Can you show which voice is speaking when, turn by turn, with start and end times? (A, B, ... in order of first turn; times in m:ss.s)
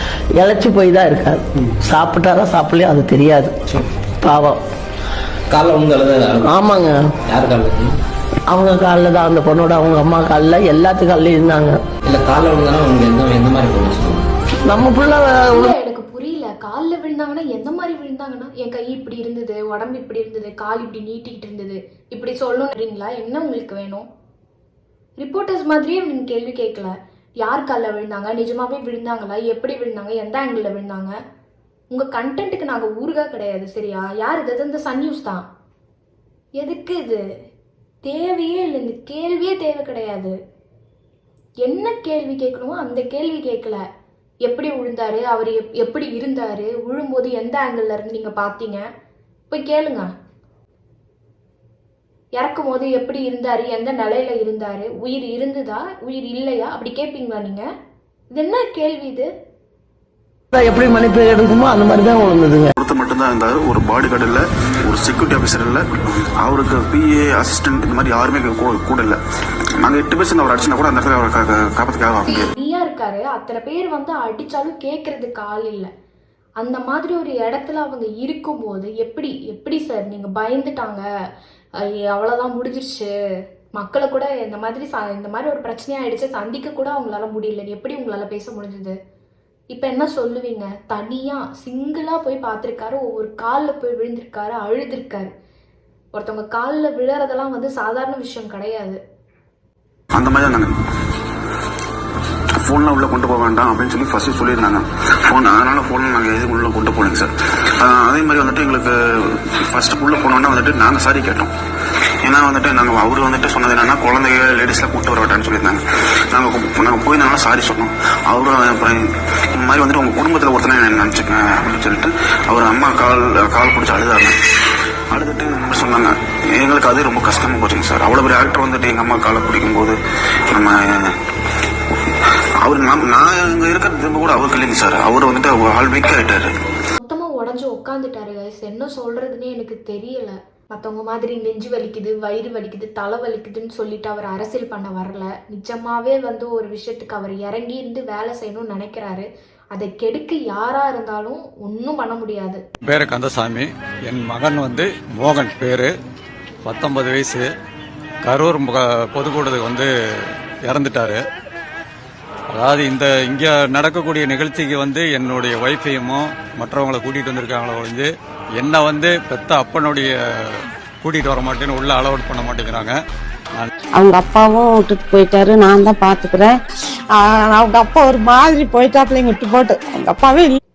0:00.4-0:03.5 A
0:04.2-0:04.6 A
0:05.5-0:06.5 B
0:06.5-0:07.1 A
0:07.3-0:07.9 B
0:08.5-0:11.8 A
0:12.0-0:14.2 B
0:14.7-0:15.7 A
0:15.5-0:24.1 C
0:25.2-0:31.1 C
0:31.9-0:35.4 C
0:36.6-0:37.2 C
0:38.0-0:40.3 C
0:41.6-0:43.8 C
0:44.4-0:48.8 C
0:49.5-0:50.1 C
0:52.4-0:57.7 C
0:58.3-0:59.3 C
1:00.5-1:02.7 A
1:02.8-1:09.2 D
1:09.8-1:12.5 D
1:12.2-1:15.9 C
1:16.6-1:21.0 C
1:21.8-1:23.1 C
1:23.8-1:28.9 C
1:29.7-1:35.3 C
1:36.1-1:39.0 C
1:40.1-1:40.7 D
1:42.6-1:48.9 D
1:49.7-1:51.5 D
1:52.2-2:04.3 D
2:05.1-2:10.0 D
2:10.5-2:11.1 D
2:12.6-2:16.5 D
2:17.0-2:32.6 C
2:32.9-2:35.9 E
2:36.6-2:37.4 E
2:38.2-2:39.9 E
2:40.6-2:41.2 E
2:42.5-2:48.1 E
2:48.6-2:50.1 E
2:51.0-2:52.9 E
2:53.9-2:56.6 F
2:57.1-3:00.6 F